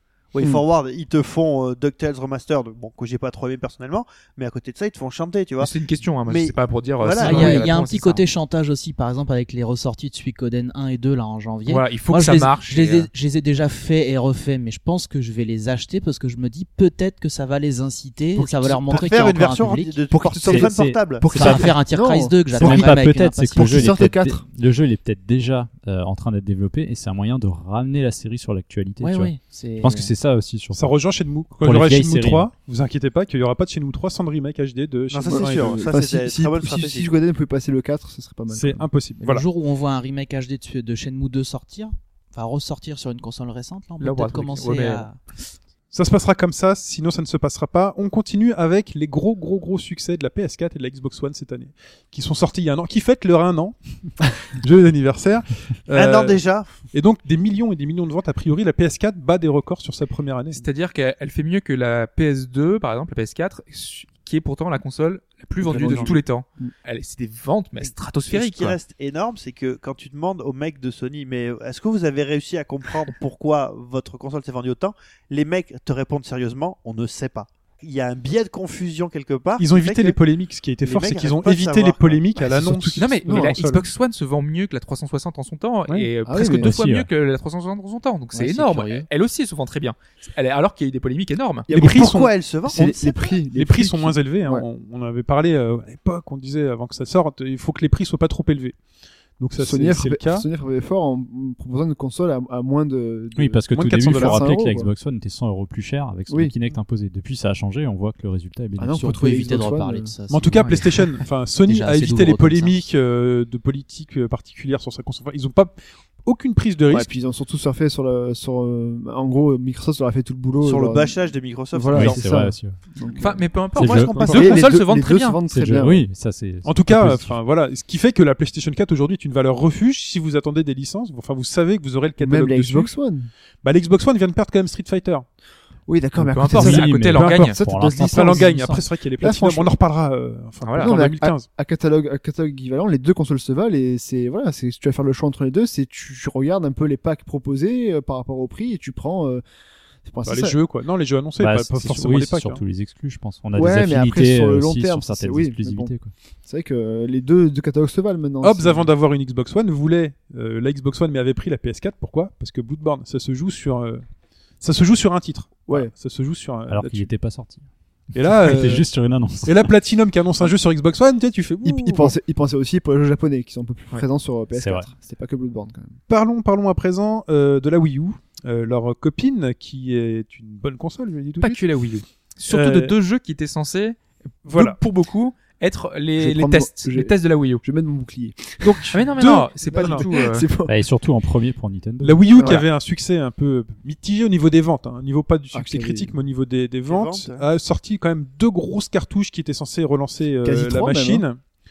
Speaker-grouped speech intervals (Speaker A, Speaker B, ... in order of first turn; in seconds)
Speaker A: 0.3-5.7, 6.3-7.7, 18.5-21.3, 35.1-37.1, 55.9-56.8, 68.3-80.2, 80.8-82.2, 91.7-93.0, 120.6-122.2, 123.8-124.6, 196.8-197.5
Speaker B: 5.6-8.2, 11.7-13.1, 44.0-45.0, 60.5-68.8, 83.0-91.7, 110.6-110.8, 123.2-125.4, 136.3-137.6, 140.6-141.0, 181.4-187.6, 188.9-190.5
Speaker C: 7.2-20.0, 21.3-23.9, 29.0-30.1, 39.2-45.2, 88.3-89.1, 108.9-110.9, 111.7-112.8
Speaker D: 20.1-23.0, 23.5-24.4, 35.3-38.9, 65.6-66.7, 82.5-83.6, 86.2-86.7, 92.7-94.7, 99.6-104.9, 106.3-106.5, 108.8-110.1, 116.9-121.2, 121.7-123.5, 124.3-126.1, 132.2-133.3, 135.9-139.8, 140.8-149.4, 150.0-150.6, 153.5-155.9, 156.4-158.9, 171.6-176.0, 186.2-190.7, 192.3-192.6, 195.5-196.1, 200.4-201.2
Speaker E: 20.3-21.7, 22.5-30.9, 31.6-32.5, 86.4-87.1, 103.3-109.2, 121.9-122.8, 123.7-124.2, 125.5-127.3, 136.2-138.8, 151.4-156.1, 166.7-167.7, 168.3-169.7, 174.5-174.9, 190.7-192.5
Speaker F: 30.7-35.9, 38.5-39.5, 45.9-56.4, 56.9-60.6, 65.8-66.2, 79.6-83.8, 91.7-92.3, 93.5-98.8, 99.4-100.5, 103.7-104.5, 110.3-117.1, 124.1-124.5, 126.6-132.9, 133.6-135.2, 136.6-141.5, 150.2-152.6, 158.4-164.0, 164.6-167.1, 168.1-168.9, 169.4-172.1, 176.1-181.6, 182.5-182.9, 184.4-184.8, 188.6-190.1, 192.0-201.4